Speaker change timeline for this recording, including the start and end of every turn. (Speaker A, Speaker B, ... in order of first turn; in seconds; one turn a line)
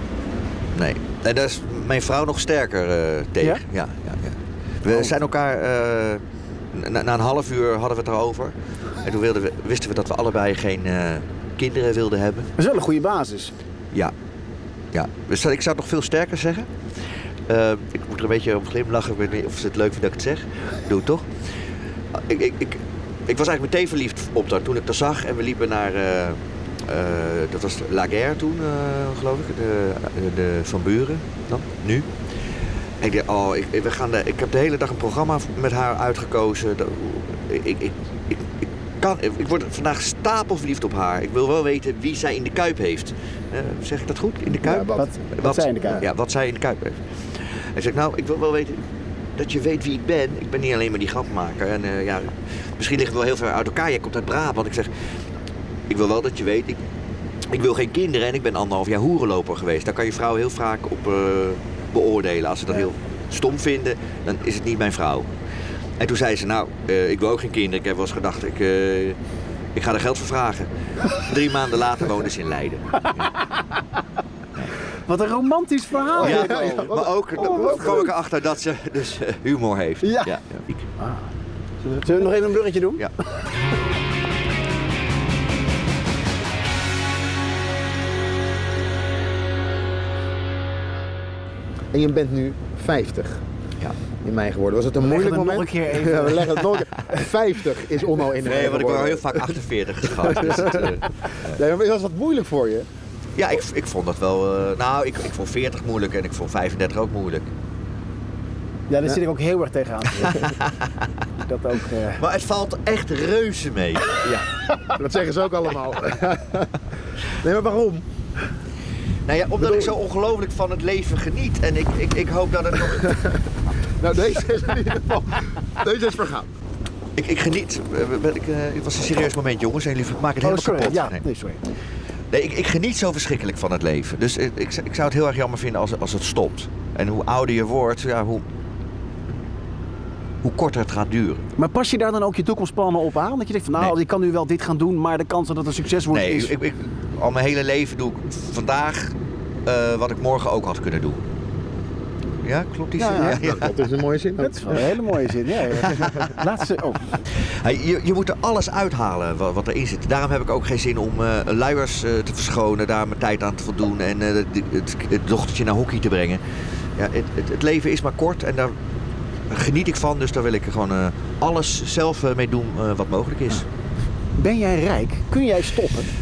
Speaker A: 0.7-12.5
Speaker B: 12.6-13.5
Speaker A: 14.9-16.7
Speaker A: 17.5-21.3
Speaker A: 22.1-32.1
Speaker A: 33.0-54.9
Speaker C: 44.6-45.1
Speaker B: 44.9-46.0
Speaker A: 55.9-56.8
Speaker A: 57.5-65.3
Speaker A: 66.0-69.2
Speaker A: 69.7-73.3
Speaker B: 73.0-73.8
Speaker B: 75.0-78.1
Speaker C: 76.0-78.1
Speaker A: 76.2-80.8
Speaker B: 80.0-80.3
Speaker B: 81.9-83.0
Speaker C: 91.9-93.4
Speaker C: 94.2-99.5
Speaker B: 95.0-96.6
Speaker A: 98.4-101.6
Speaker C: 100.3-100.9
Speaker C: 101.4-102.9
Speaker A: 103.3-107.5
Speaker B: 108.9-110.7
Speaker B: 111.5-112.2
Speaker A: 112.2-114.3
Speaker C: 114.2-118.0
Speaker A: 119.2-123.5
Speaker C: 119.6-119.9
Speaker C: 123.9-126.5
Speaker A: 127.2-131.2
Speaker B: 130.4-131.6
Speaker A: 132.3-138.4
Speaker A: 140.4-141.4
Speaker B: 141.6-146.5
Speaker A: 146.1-149.1
Speaker A: 149.7-151.2
Speaker A: 152.4-153.7
Speaker C: 153.0-154.9
Speaker B: 153.0-153.4
Speaker B: 154.4-157.2
Speaker A: 155.8-156.4
Speaker A: 157.3-166.4
Speaker A: 166.9-168.7
Speaker A: 169.5-173.6
Speaker B: 174.4-176.1